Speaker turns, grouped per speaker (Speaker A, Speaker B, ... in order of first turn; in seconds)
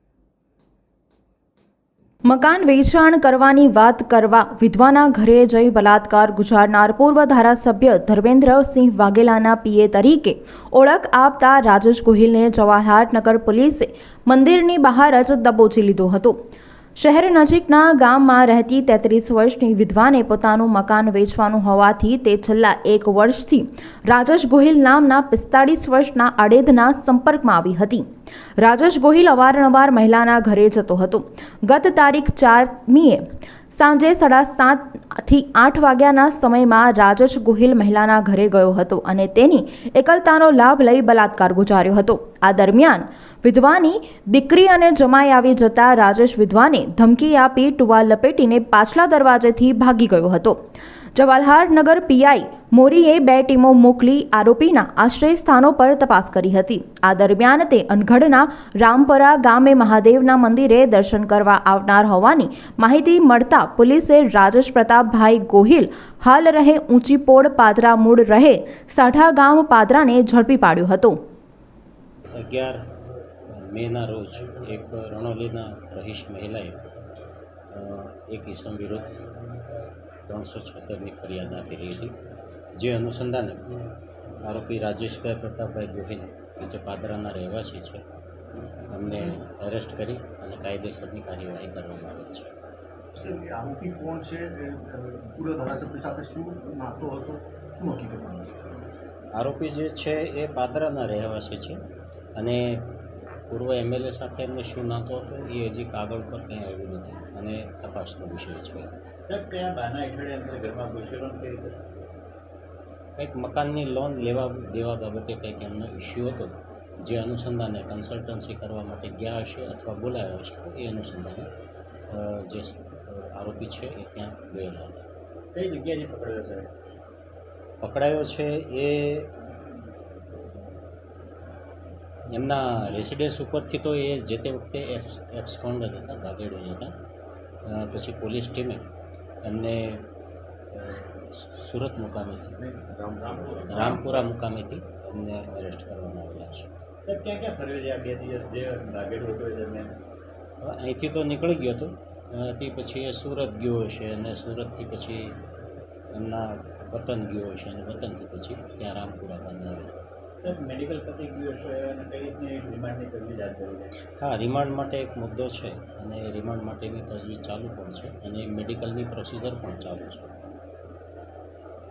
Speaker A: 2.2-16.4, 17.0-28.1, 28.6-50.6, 51.1-71.2
Speaker B: 72.3-72.9, 73.5-76.8, 77.7-79.1, 80.2-82.2, 82.8-83.7, 84.4-88.0, 88.9-92.5, 99.3-101.8, 102.3-102.9, 103.5-108.9, 113.2-121.5, 122.1-125.0, 127.8-129.3, 132.3-136.9, 137.6-138.8, 139.4-140.1, 140.7-142.6, 143.7-146.7, 150.6-155.4, 156.1-160.0, 164.2-170.3
Speaker C: 93.2-98.7, 142.6-144.0
Speaker D: 109.3-112.0, 125.5-126.7, 143.2-144.2, 147.1-149.9, 160.4-163.9